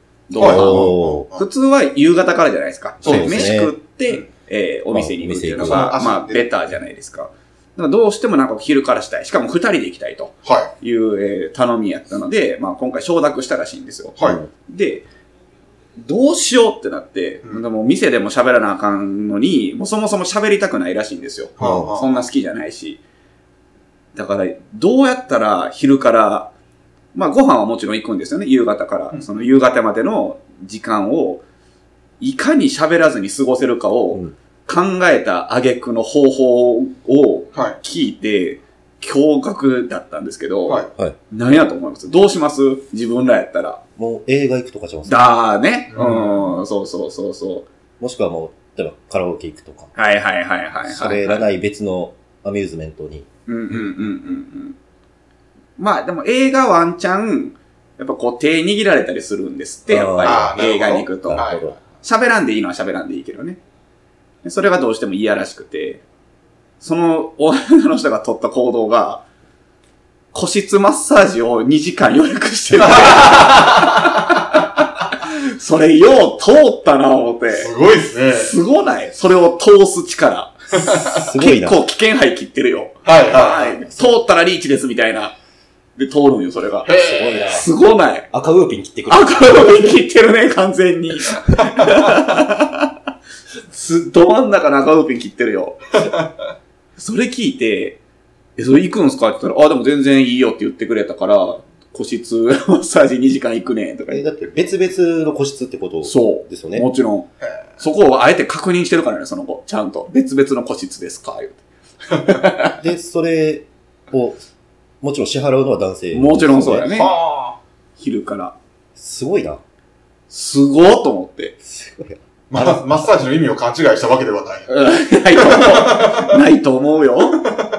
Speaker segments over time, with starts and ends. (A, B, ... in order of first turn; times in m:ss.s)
0:00.3-0:15.1 A
0:00.4-0:01.3 B
0:00.4-0:01.5 C
0:03.0-0:03.7 B
0:03.0-0:04.3 C
0:04.9-0:05.9 B
0:05.6-0:06.5 C
0:10.4-0:10.7 C
0:14.2-0:14.4 C
0:14.2-0:14.5 B
0:16.0-0:23.0 A
0:21.6-0:22.2 C
0:21.6-0:21.9 B
0:24.2-0:26.5 A
0:27.1-0:31.4 A
0:32.2-0:43.8 A
0:37.5-0:37.8 C
0:44.0-0:45.2 B
0:45.1-0:47.7 A
0:45.9-0:46.6 C
0:48.0-0:49.9 B
0:50.0-0:51.5 A
0:50.8-0:53.3 B
0:53.5-0:54.8 A
0:55.8-1:01.5 A
0:59.9-1:00.6 B
1:00.2-1:01.8 C
1:01.2-1:01.8 B
1:02.0-1:03.6 A
1:04.4-1:06.0 A
1:06.8-1:09.2 A
1:10.3-1:17.7 A
1:12.8-1:14.2 C
1:17.5-1:18.6 C
1:18.4-1:25.3 A
1:20.8-1:21.1 C
1:21.0-1:21.8 B
1:23.0-1:23.8 C
1:26.0-1:26.9 A
1:26.8-1:27.6 C
1:27.0-1:27.7 B
1:27.5-1:28.3 A
1:28.3-1:29.9 B
1:29.1-1:33.0 A
1:33.7-1:36.1 A
1:37.0-1:38.0 A
1:38.6-1:44.2 A
1:44.1-1:46.9 B
1:46.0-1:47.3 A
1:47.8-1:51.6 A
1:52.1-1:52.8 A
1:52.8-1:54.4 B
1:55.0-1:56.9 B
1:56.1-1:57.1 A
1:56.9-1:57.6 C
1:58.0-1:58.6 A
1:59.0-1:59.6 B
2:00.3-2:01.6 A
2:01.6-2:02.9 B
2:02.5-2:04.8 C
2:04.7-2:07.4 A
2:05.4-2:06.4 C